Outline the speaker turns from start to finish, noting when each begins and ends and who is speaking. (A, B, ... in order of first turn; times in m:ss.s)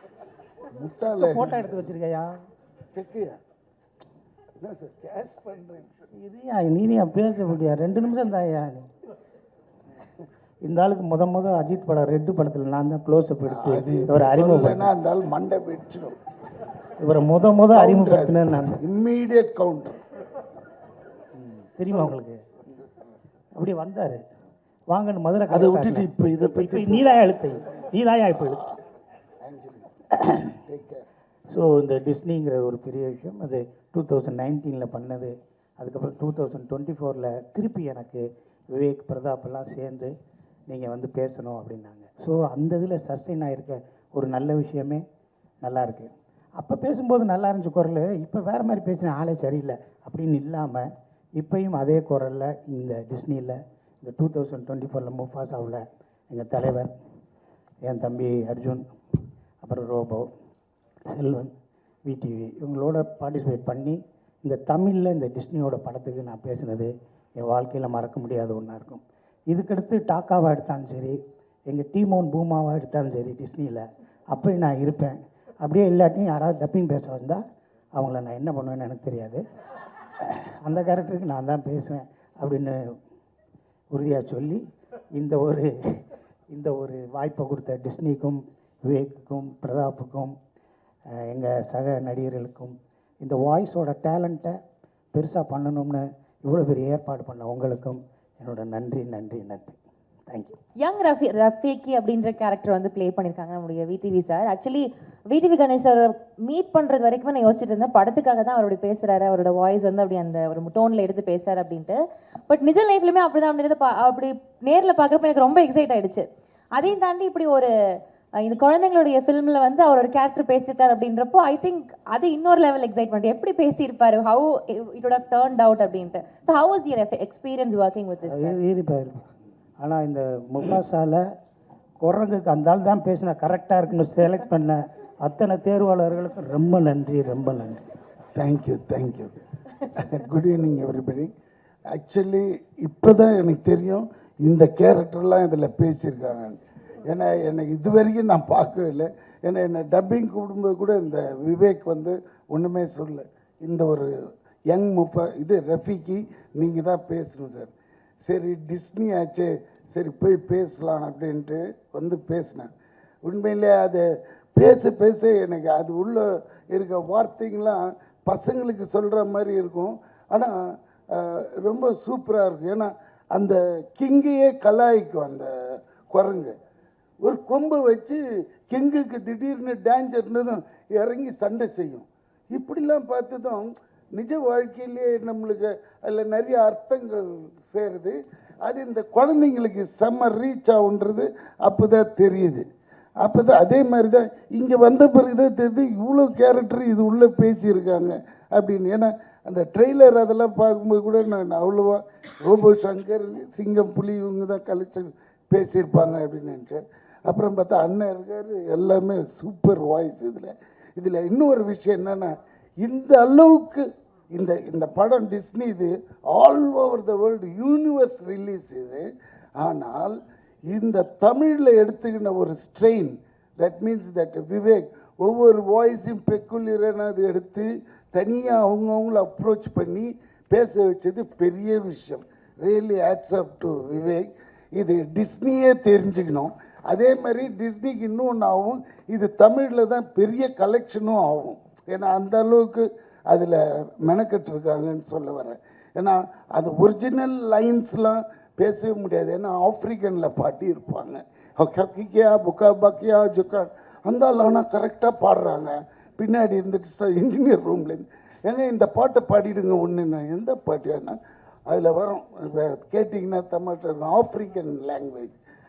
0:00.7-0:01.9 A
0:01.1-0:02.3 B
0:02.9-0:03.4 A
0:04.6-0:06.0 A
0:06.2-0:08.9 B
0:10.6-0:14.9 B
0:13.5-0:16.2 A
0:17.0-0:18.8 B
0:17.7-0:20.0 A
0:21.8-0:22.4 B
0:23.6-0:24.2 B
0:24.9-0:28.6 B
0:25.5-0:27.2 A
0:29.4-0:29.9 A
0:30.5-0:31.0 A
0:31.5-0:40.1 B
0:40.7-0:45.0 B
0:45.6-0:56.9 B
0:57.8-0:58.9 B
0:59.6-1:00.3 B
1:01.1-1:01.5 B
1:02.1-1:17.4 B
1:17.9-1:19.4 B
1:20.2-1:22.9 B
1:23.9-1:24.6 B
1:25.1-1:30.4 B
1:31.1-1:34.6 B
1:35.1-1:39.8 B
1:40.3-1:40.6 B
1:40.8-1:57.7 C
1:58.4-2:08.6 C
2:08.3-2:09.3 B
2:09.8-2:11.2 B
2:12.0-2:17.8 B
2:18.4-2:21.3 A
2:21.9-2:34.1 A
2:34.7-2:37.7 A
2:38.2-2:42.7 A
2:43.2-2:44.0 A
2:44.6-2:50.6 A
2:51.1-2:55.5 A
2:56.1-2:56.6 A
2:57.2-3:12.6 A
3:13.2-4:25.4 A